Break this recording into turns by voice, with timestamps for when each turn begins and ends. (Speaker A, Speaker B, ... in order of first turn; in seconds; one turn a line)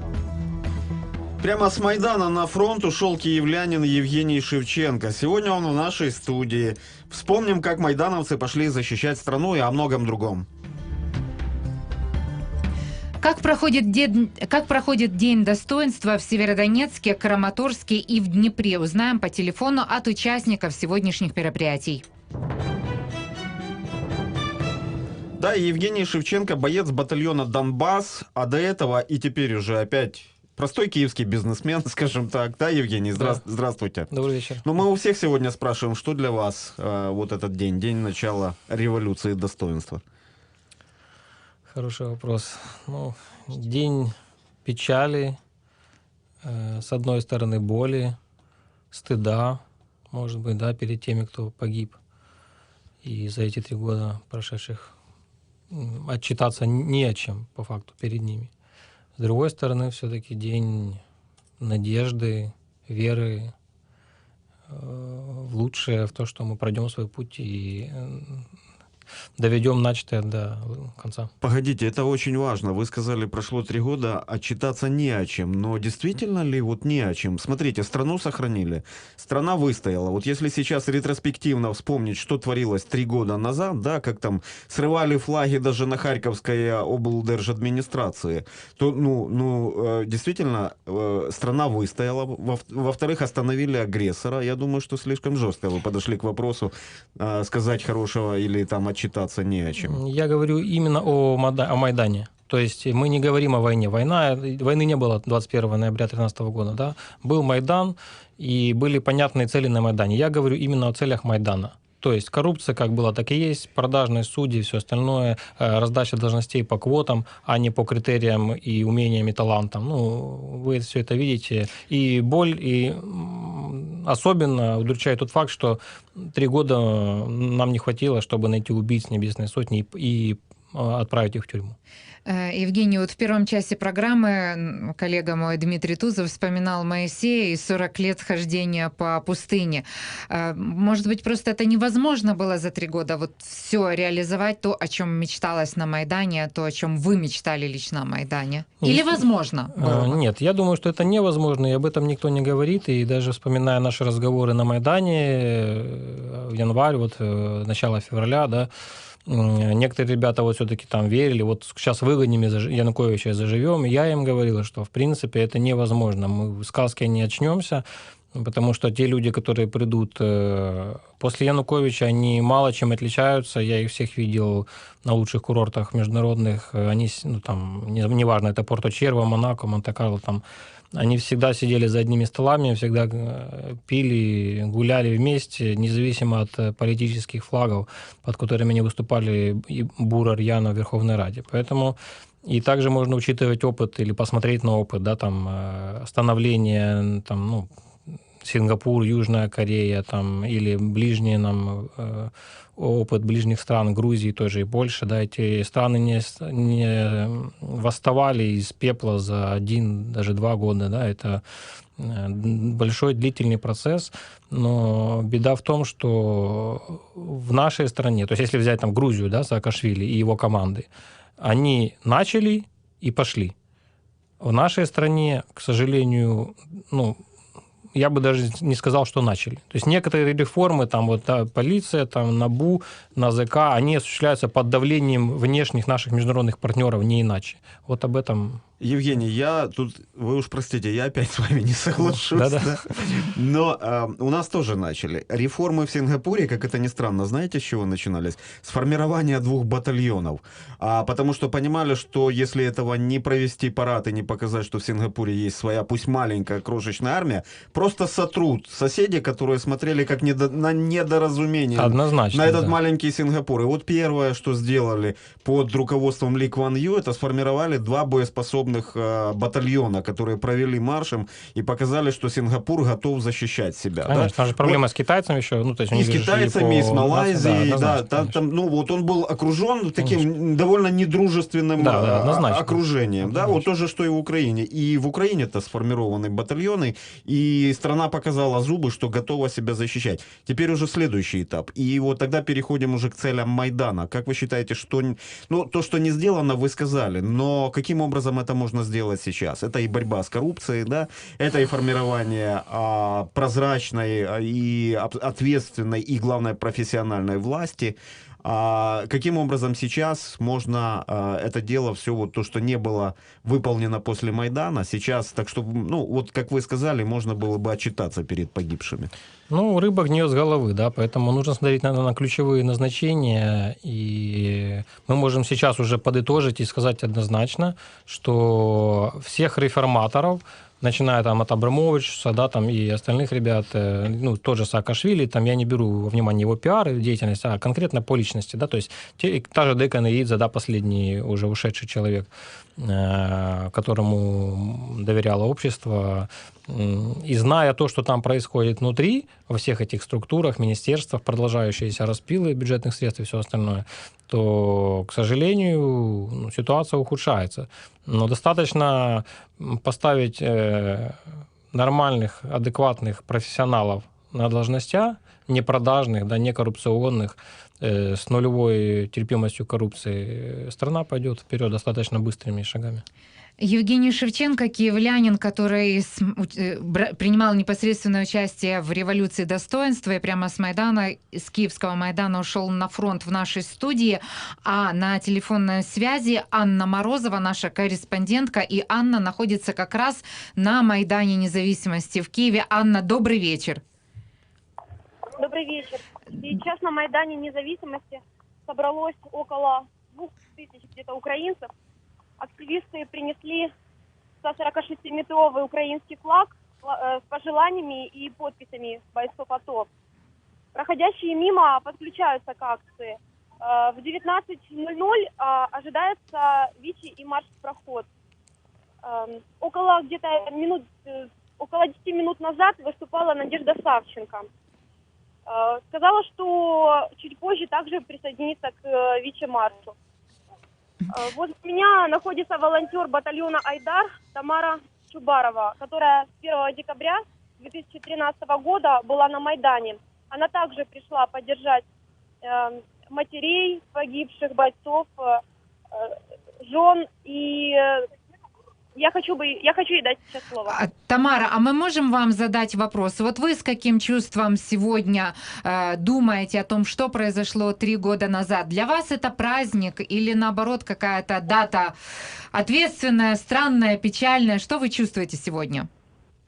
Speaker A: 1.4-10.4
Speaker B: 13.2-22.0
Speaker A: 25.4-34.1
Speaker C: 33.1-33.4
Speaker C: 34.1-34.6
Speaker A: 34.6-40.0
Speaker C: 41.7-45.4
Speaker C: 46.4-48.1
Speaker C: 48.9-52.0
Speaker C: 53.0-54.9
Speaker C: 55.7-58.5
Speaker C: 59.2-61.0
Speaker C: 61.6-63.5
Speaker C: 64.7-68.4
Speaker C: 69.4-71.3
Speaker A: 71.4-100.0
Speaker C: 99.8-131.7
Speaker B: 132.2-150.2
Speaker C: 148.8-149.2
Speaker C: 149.7-158.7
Speaker C: 159.3-180.4
Speaker C: 180.9-197.7
Speaker C: 198.4-211.4
Speaker C: 212.0-220.9
Speaker C: 221.4-223.5
Speaker C: 224.4-227.2
Speaker C: 227.9-238.6
Speaker A: 238.8-274.8
Speaker C: 242.3-242.8
Speaker C: 261.8-262.7
Speaker C: 274.1-278.3
Speaker A: 275.9-319.1
Speaker C: 281.8-283.6
Speaker C: 319.5-361.2
Speaker C: 361.7-373.0
Speaker B: 373.6-393.8
Speaker D: 395.4-401.7
Speaker D: 402.4-403.7
Speaker D: 404.4-409.9
Speaker D: 410.7-418.1
Speaker D: 419.0-424.5
Speaker D: 425.4-429.9
Speaker D: 431.1-441.8
Speaker D: 442.4-445.4
Speaker D: 445.9-448.0
Speaker D: 448.9-450.8
Speaker B: 450.7-461.9
Speaker B: 462.5-465.9